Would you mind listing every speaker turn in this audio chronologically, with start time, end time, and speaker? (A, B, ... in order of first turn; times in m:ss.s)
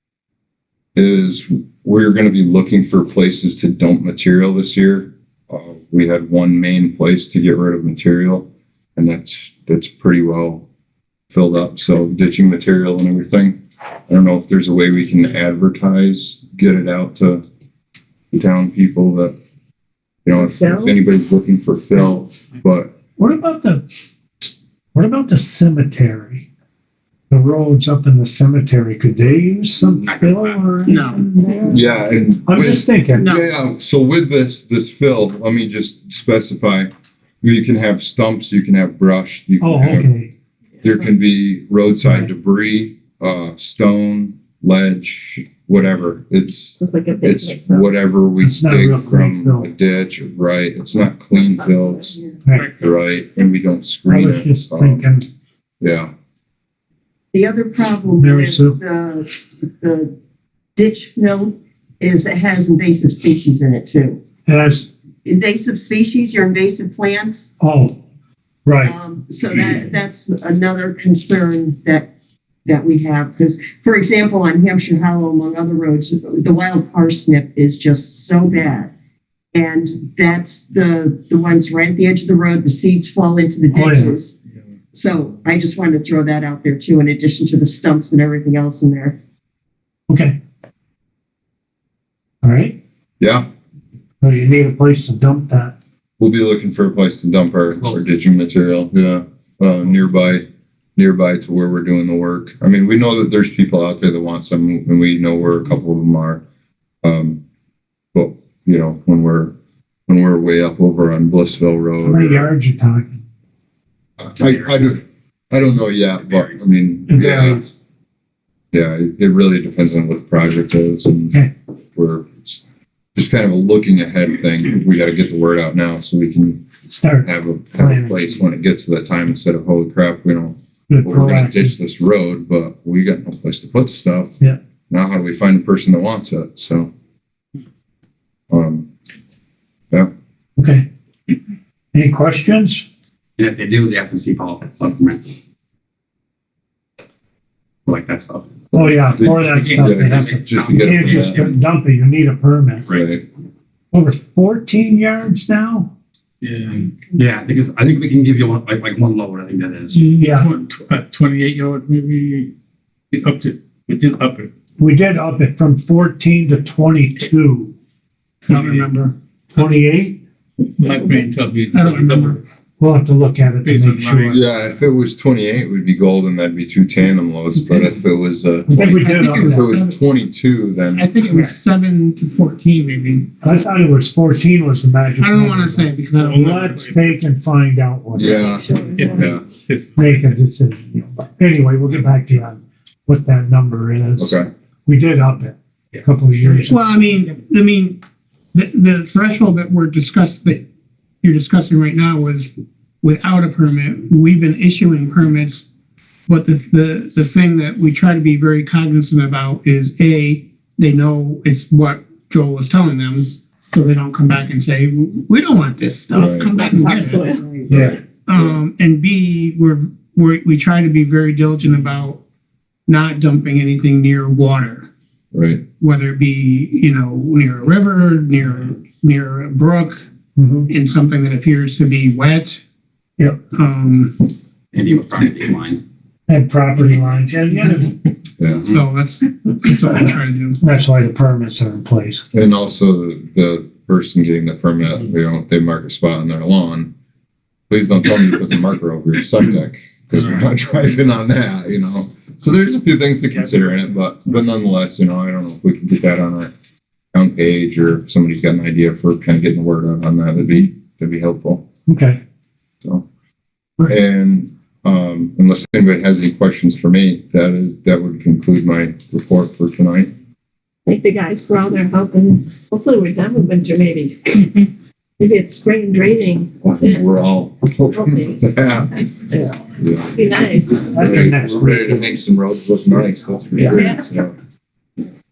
0:01.0-0:10.7 A
0:11.3-0:17.4 A
0:18.3-0:19.4 A
0:20.2-0:22.9 A
0:20.3-0:21.0 B
0:23.2-0:23.8 C
0:24.4-0:26.5 C
0:27.3-0:31.2 C
0:29.8-0:30.6 D
0:30.9-0:31.3 E
0:30.9-0:31.9 B
0:31.7-0:36.9 A
0:32.4-0:33.3 C
0:33.2-0:33.5 E
0:37.4-0:40.1 A
0:39.6-0:40.3 C
0:40.8-0:52.2 A
0:42.0-0:42.3 C
0:46.8-0:47.9 B
0:48.4-0:49.7 C
0:51.4-0:52.0 B
0:52.4-0:52.7 C
0:52.8-0:55.0 A
0:54.1-0:55.3 C
0:55.8-0:56.1 A
0:57.3-1:00.1 F
0:58.2-0:58.8 C
1:00.8-1:04.2 F
1:04.5-1:04.9 C
1:05.2-1:07.5 F
1:07.6-1:08.0 C
1:08.6-1:09.0 C
1:08.8-1:12.1 F
1:12.7-1:18.9 F
1:19.5-1:24.3 F
1:23.7-1:24.2 C
1:24.9-1:29.2 F
1:30.1-1:30.4 C
1:32.4-1:32.8 C
1:33.2-1:33.4 A
1:34.2-1:35.8 C
1:36.2-1:40.4 A
1:37.8-1:38.0 D
1:41.0-1:46.4 A
1:47.0-1:47.4 A
1:48.1-1:49.5 A
1:50.1-1:52.5 A
1:52.0-1:53.2 C
1:54.2-1:57.6 A
1:54.4-1:54.9 D
1:56.2-1:56.6 D
1:57.1-1:57.7 C
1:58.7-2:01.4 A
2:02.0-2:02.6 A
2:03.2-2:06.6 A
2:06.9-2:08.2 C
2:07.2-2:14.4 A
2:10.9-2:11.7 C
2:14.9-2:16.9 A
2:18.5-2:18.9 A
2:20.6-2:20.9 C
2:21.9-2:22.9 C
2:23.4-2:25.3 D
2:27.9-2:28.5 D
2:28.7-2:32.9 C
2:28.8-2:31.5 A
2:29.5-2:31.6 D
2:32.9-2:33.2 A
2:33.9-2:35.9 C
2:36.4-2:36.9 G
2:36.8-2:40.1 D
2:39.9-2:42.5 G
2:40.2-2:40.5 C
2:43.1-2:44.5 G
2:44.8-2:47.7 C
2:48.5-2:48.9 G
2:48.5-2:49.2 E
2:49.6-2:50.2 C
2:50.8-2:52.4 G
2:50.8-2:52.4 E
2:52.8-2:54.4 C
2:53.6-2:54.4 G
2:54.3-3:01.1 A
2:57.6-2:57.9 E
2:58.7-2:59.7 C
2:58.8-3:00.0 E
3:00.9-3:03.3 E
3:03.4-3:09.2 C
3:05.2-3:06.4 E
3:06.2-3:07.2 G
3:08.2-3:09.5 A
3:08.2-3:09.3 B
3:08.9-3:10.4 G
3:10.0-3:17.0 C
3:14.2-3:14.5 A
3:16.7-3:18.0 E
3:18.5-3:20.6 E
3:21.2-3:25.6 E
3:26.3-3:37.4 E
3:36.1-3:36.5 A
3:36.4-3:37.9 B
3:37.7-3:38.6 A
3:37.7-3:38.0 C
3:38.3-3:42.2 E
3:42.9-3:44.9 E
3:45.3-3:45.6 A
3:45.8-3:50.0 E
3:50.4-3:50.7 C
3:50.7-3:52.6 E
3:53.5-3:54.2 E
3:54.7-3:55.8 D
3:56.3-3:57.9 C
3:58.4-3:58.7 A
3:58.5-3:58.8 D
3:58.6-4:00.6 E
4:00.6-4:02.2 C
4:02.3-4:06.9 A
4:07.7-4:16.5 A
4:17.1-4:21.6 A
4:21.9-4:22.2 C
4:23.9-4:30.1 A
4:30.9-4:37.1 B
4:36.6-4:39.0 A
4:37.9-4:38.5 B
4:39.1-4:41.2 B
4:39.8-4:40.2 A
4:40.8-4:44.3 A
4:40.9-4:42.2 C
4:43.6-4:43.8 C
4:43.7-4:44.0 B